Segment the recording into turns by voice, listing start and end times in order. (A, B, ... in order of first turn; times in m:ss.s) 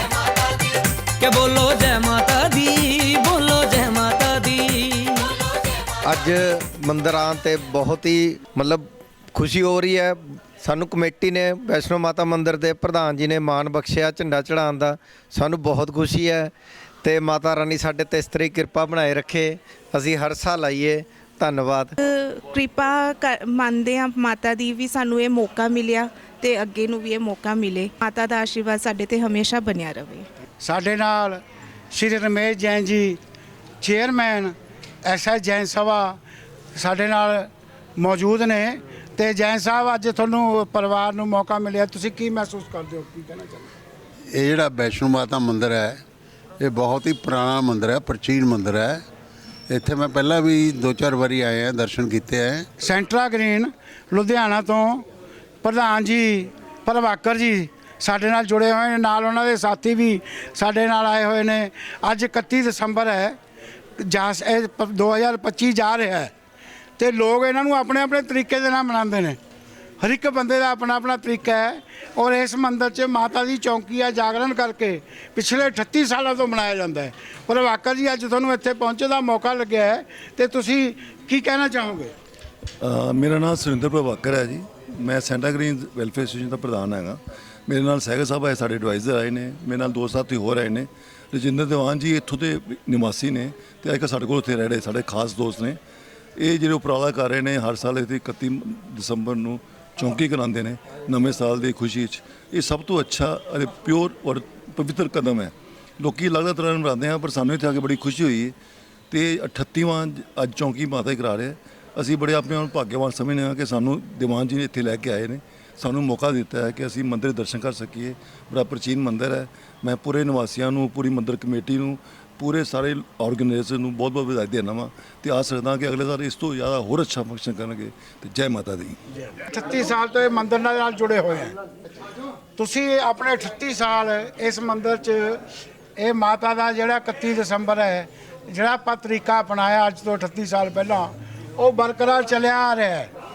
0:01.2-0:05.4 A
0:06.0-0:16.5 B
0:17.0-0:21.9 B
0:22.0-0:30.2 C
0:30.6-0:31.4 D
0:31.9-0:33.2 D
0:33.8-0:36.2 D
0:36.7-0:43.7 D
0:44.3-0:46.0 E
0:46.6-0:49.0 E
0:49.7-0:52.7 E
0:52.8-0:55.0 D
0:55.6-1:03.4 D
1:04.0-1:06.3 D
1:07.0-1:09.4 D
1:10.0-1:22.1 D
1:22.8-1:35.8 F
1:36.4-1:48.5 F
1:49.1-2:09.0 F
2:09.3-2:11.6 D
2:12.6-2:15.4 D
2:16.0-2:23.1 D